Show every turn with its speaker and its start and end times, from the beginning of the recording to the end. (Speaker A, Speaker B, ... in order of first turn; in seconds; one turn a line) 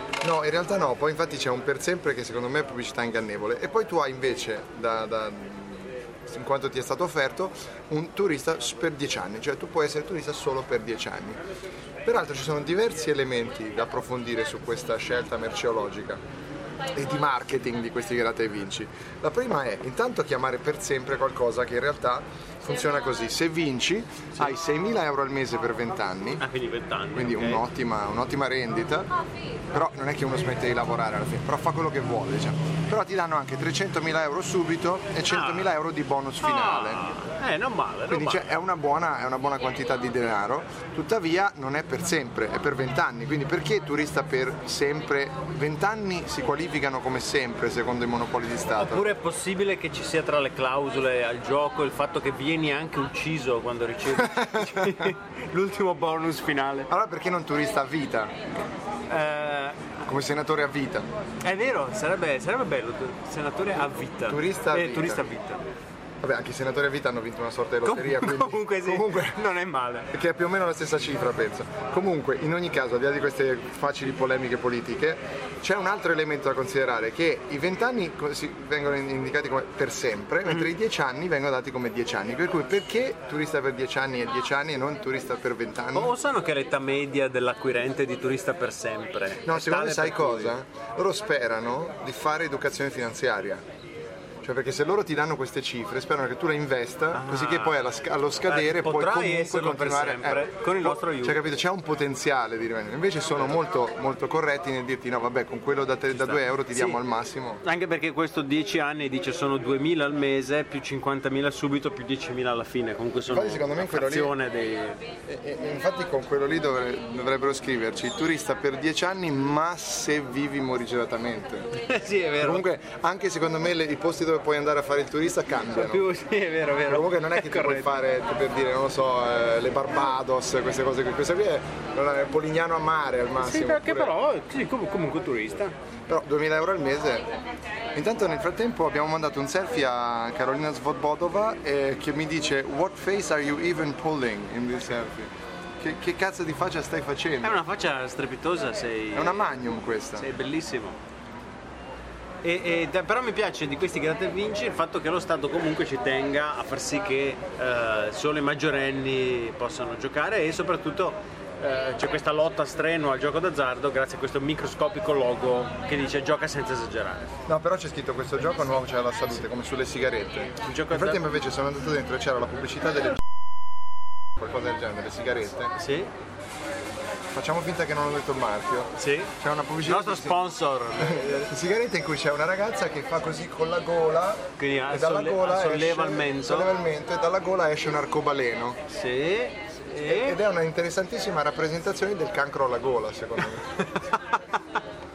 Speaker A: 0.2-11.4
Speaker A: 12.1-16.2
Speaker A: 16.9-26.4
Speaker B: 26.4-27.6
Speaker A: 27.1-29.1
Speaker A: 29.7-37.1
Speaker B: 35.3-35.7
Speaker B: 36.4-38.5
Speaker A: 38.1-49.0
Speaker B: 48.8-56.9
Speaker A: 54.1-55.1
Speaker A: 56.9-58.3
Speaker B: 59.1-60.0
Speaker A: 60.1-61.1
Speaker B: 61.4-65.6
Speaker A: 64.3-65.3
Speaker A: 66.2-69.4
Speaker B: 67.8-70.1
Speaker A: 70.1-86.2
Speaker B: 85.9-90.6
Speaker A: 89.5-93.6
Speaker A: 94.4-107.6
Speaker B: 97.2-101.4
Speaker B: 106.1-107.0
Speaker B: 107.6-115.0
Speaker A: 113.3-114.3
Speaker A: 115.3-121.7
Speaker B: 121.8-122.7
Speaker A: 122.4-126.1
Speaker B: 125.7-128.1
Speaker A: 126.9-134.2
Speaker B: 133.4-135.8
Speaker A: 136.1-137.3
Speaker A: 137.9-147.6
Speaker B: 147.4-149.5
Speaker A: 149.2-150.3
Speaker B: 150.2-151.0
Speaker B: 152.4-167.3
Speaker A: 167.5-173.2
Speaker B: 170.6-171.2
Speaker A: 174.4-175.7
Speaker B: 175.8-176.1
Speaker A: 177.3-188.8
Speaker B: 179.0-179.3
Speaker B: 179.8-181.5
Speaker B: 184.6-186.7
Speaker B: 188.9-190.4
Speaker A: 189.9-193.7